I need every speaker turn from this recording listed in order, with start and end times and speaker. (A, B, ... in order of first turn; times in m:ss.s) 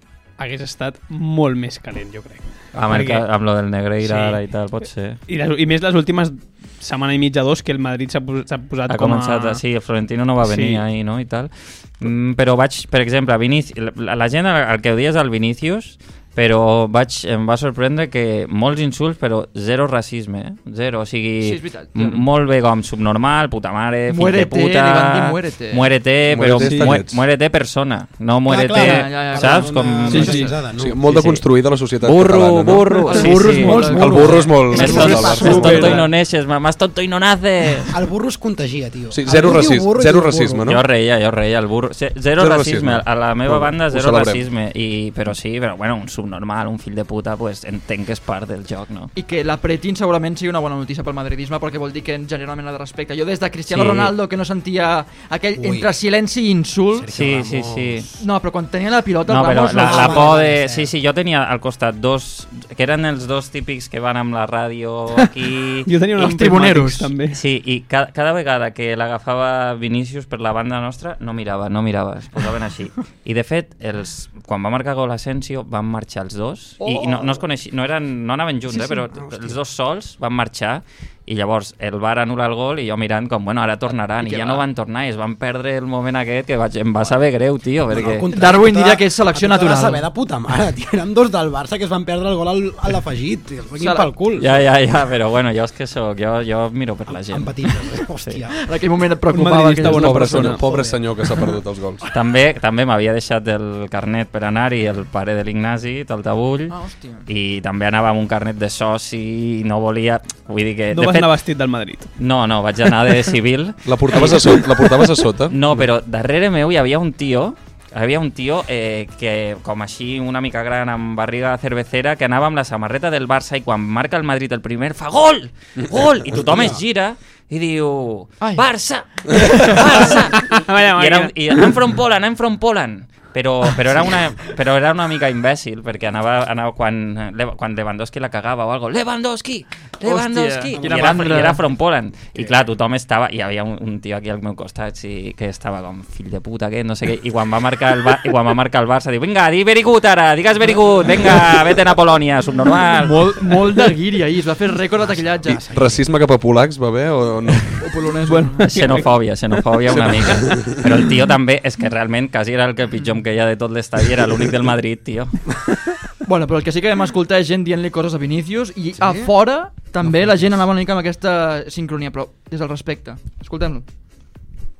0:00.4-0:03.2 A
0:02.7-0:05.2 B
0:04.0-0:04.4 A
0:05.3-0:09.6 A
0:08.9-0:30.6 B
0:10.4-0:10.8 A
0:21.4-0:22.2 C
0:24.1-0:25.9 C
0:26.2-0:27.2 D
0:26.6-0:27.0 A
0:28.4-0:31.2 E
0:28.7-0:30.1 C
0:30.1-0:30.5 A
0:30.8-0:33.3 D
0:31.1-0:31.4 B
0:32.0-0:38.0 B
0:33.0-0:36.0 C
0:33.2-0:36.0 E
0:34.0-0:36.0 D
0:34.9-0:36.0 A
0:37.9-0:40.7 E
0:39.1-0:40.8 D
0:40.7-0:49.1 B
0:42.4-0:44.4 D
0:49.2-0:57.1 C
0:53.7-0:54.1 B
0:55.6-0:55.9 E
0:56.9-0:58.2 E
0:57.1-0:58.1 B
0:58.2-1:00.4 C
0:59.3-1:05.9 B
0:59.4-1:00.9 E
1:05.8-1:07.4 A
1:06.2-1:07.1 C
1:07.3-1:28.3 B
1:16.8-1:17.4 C
1:18.7-1:19.6 E
1:24.2-1:24.6 C
1:27.9-1:34.5 E
1:28.3-1:30.0 C
1:33.8-1:34.1 C
1:34.4-1:38.4 B
1:37.1-1:38.6 E
1:38.6-1:40.8 C
1:39.3-1:40.6 A
1:39.8-1:42.0 D
1:40.6-1:40.9 E
1:42.1-1:46.7 B
1:46.7-1:47.3 C
1:47.3-1:51.3 B
1:50.9-1:52.1 A
1:52.2-2:33.2 B
1:53.8-1:55.6 D
2:06.4-2:06.8 E
2:09.3-2:11.6 A
2:20.0-2:21.6 C
2:33.0-2:35.6 C
2:35.0-2:36.1 E
2:35.5-2:37.7 D
2:37.8-2:38.8 C
2:38.3-2:39.1 A
2:38.6-2:45.4 B
2:39.6-2:40.1 A
2:40.5-2:40.8 D
2:46.2-2:53.8 C
2:49.0-2:49.3 E